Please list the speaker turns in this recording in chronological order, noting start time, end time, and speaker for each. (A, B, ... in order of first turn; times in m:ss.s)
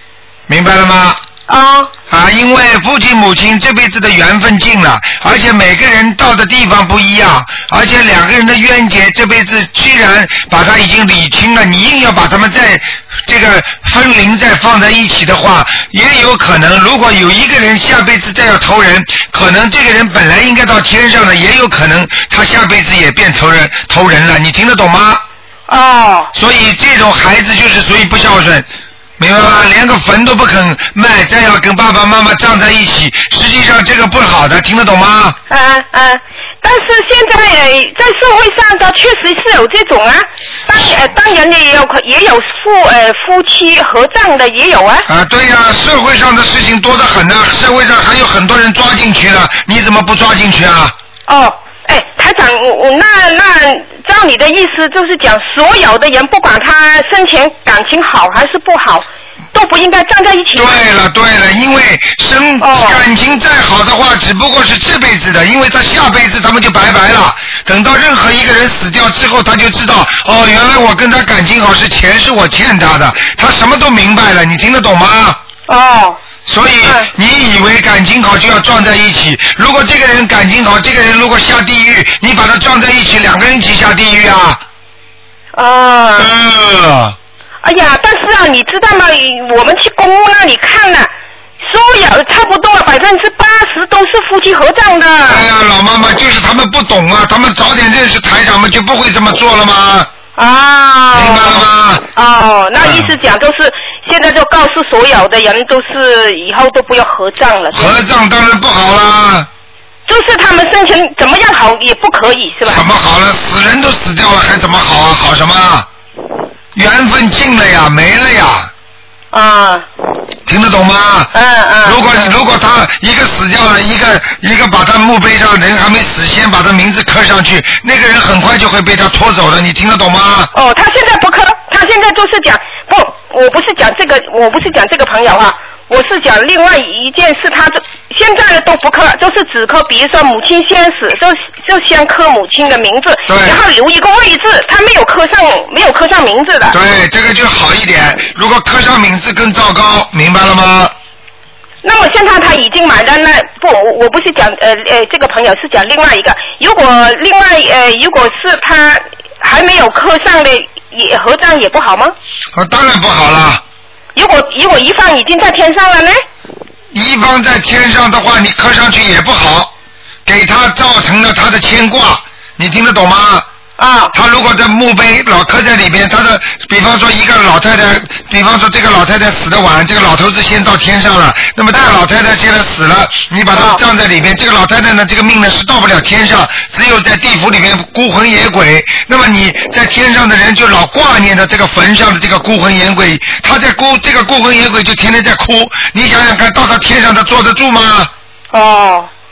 0:00.5-0:01.2 A
0:01.5-0:01.9 B
0:02.1-0:25.2 A
0:25.7-0:26.3 B
0:26.3-0:28.7 A
0:29.2-0:35.4 A
0:29.4-0:29.7 B
0:35.5-0:45.0 B
0:45.0-0:50.9 A
0:51.3-1:00.8 B
1:00.6-1:15.4 A
1:02.6-1:03.0 B
1:15.7-1:16.2 B
1:16.4-1:24.6 A
1:16.8-1:17.1 B
1:25.5-1:26.3 B
1:26.2-1:27.2 A
1:27.6-1:31.1 B
1:31.6-1:35.4 B
1:35.3-1:40.1 A
1:40.4-1:41.6 B
1:41.1-1:42.0 A
1:42.2-1:48.0 B
1:42.8-1:43.1 A
1:47.7-1:49.5 A
1:50.1-1:52.8 B
1:52.6-1:55.9 A
1:56.7-1:58.7 A
1:59.3-1:59.9 B
2:00.4-2:01.3 A
2:01.3-2:02.3 B
2:01.8-2:10.5 A
2:10.5-2:26.8 B
2:23.3-2:23.6 A
2:26.7-2:30.9 A
2:31.8-2:42.1 B
2:42.5-2:43.6 A
2:44.1-2:46.2 B
2:46.9-2:49.7 A
2:50.2-2:53.4 A
2:53.8-2:54.1 B
2:54.1-3:18.1 A
3:03.5-3:03.8 B
3:18.5-3:19.1 B